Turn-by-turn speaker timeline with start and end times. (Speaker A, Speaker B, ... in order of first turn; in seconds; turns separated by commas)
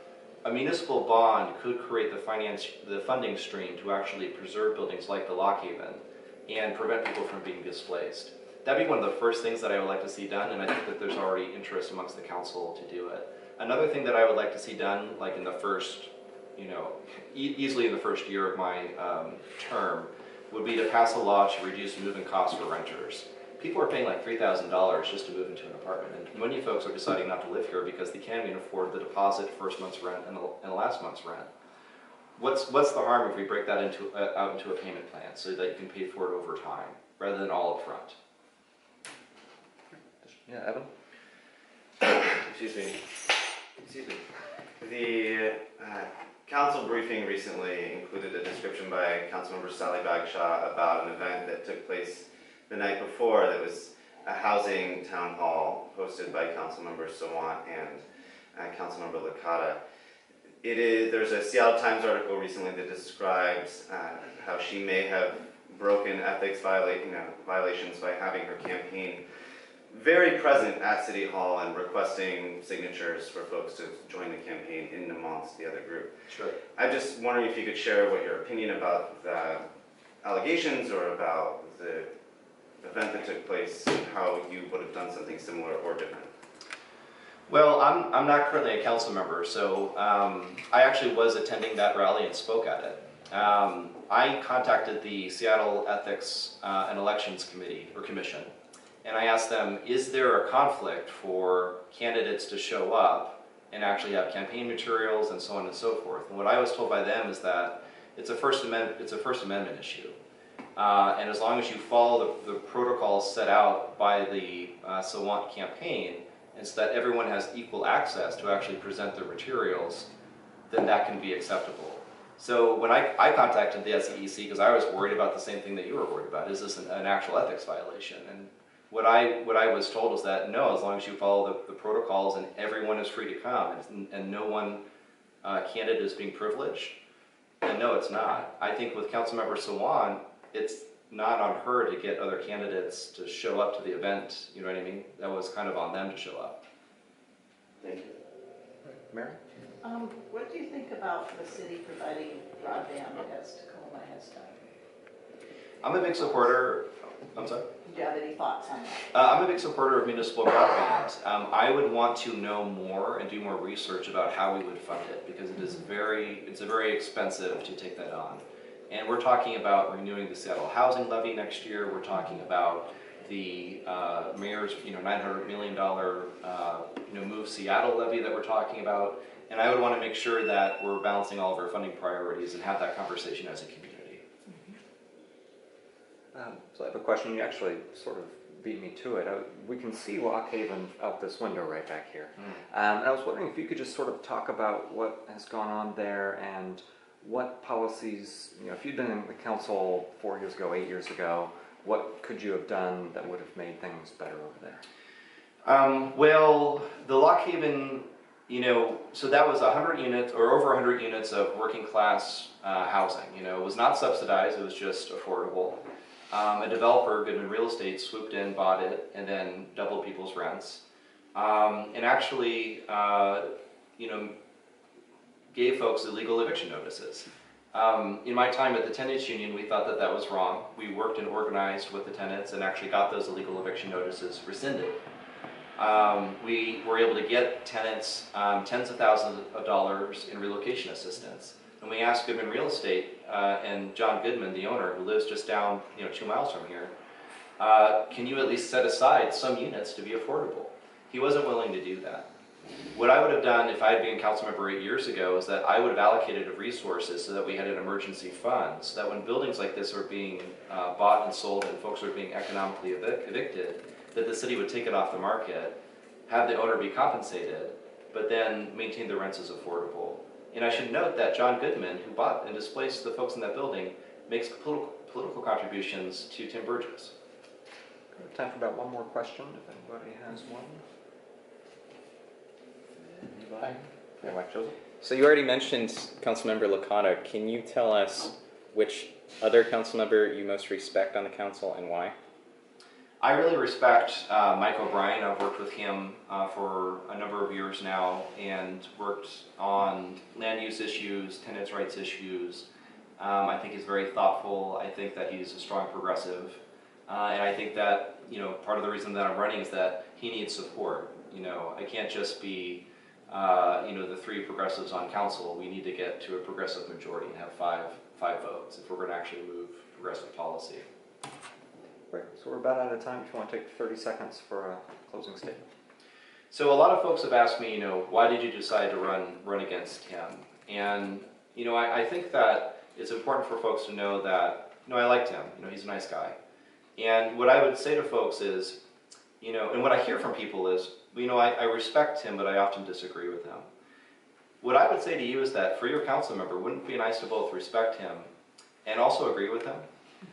Speaker A: 0.4-31.5, Speaker A: 32.4-38.1, Speaker B: 40.2-40.9, Speaker C: 42.0-43.1, Speaker C: 43.8-44.2, Speaker C: 44.8-58.0, Speaker C: 58.5-59.8, Speaker C: 60.6-69.2, Speaker C: 69.9-76.2, Speaker A: 76.3-76.6, Speaker C: 76.7-79.7, Speaker C: 80.2-82.1, Speaker C: 82.8-86.3, Speaker A: 87.5-98.5, Speaker A: 99.0-110.2, Speaker A: 110.8-120.1, Speaker A: 120.7-134.8, Speaker A: 135.4-137.0, Speaker A: 137.6-146.6, Speaker C: 147.8-148.2, Speaker D: 149.8-154.6, Speaker A: 155.8-157.7, Speaker D: 156.0-156.3, Speaker D: 157.8-159.1, Speaker A: 159.1-184.2, Speaker B: 186.3-204.8, Speaker A: 205.6-220.8, Speaker A: 221.3-224.3, Speaker A: 225.5-235.0, Speaker A: 235.8-246.9, Speaker A: 247.6-252.3, Speaker A: 252.9-277.1, Speaker B: 278.1-280.8, Speaker B: 283.2-284.8, Speaker E: 285.0-292.1, Speaker A: 293.2-302.7, Speaker A: 303.2-320.8, Speaker B: 322.1-325.6, Speaker A: 326.5-336.4, Speaker A: 337.0-338.8, Speaker A: 339.4-343.7, Speaker A: 344.6-348.3, Speaker A: 348.8-349.9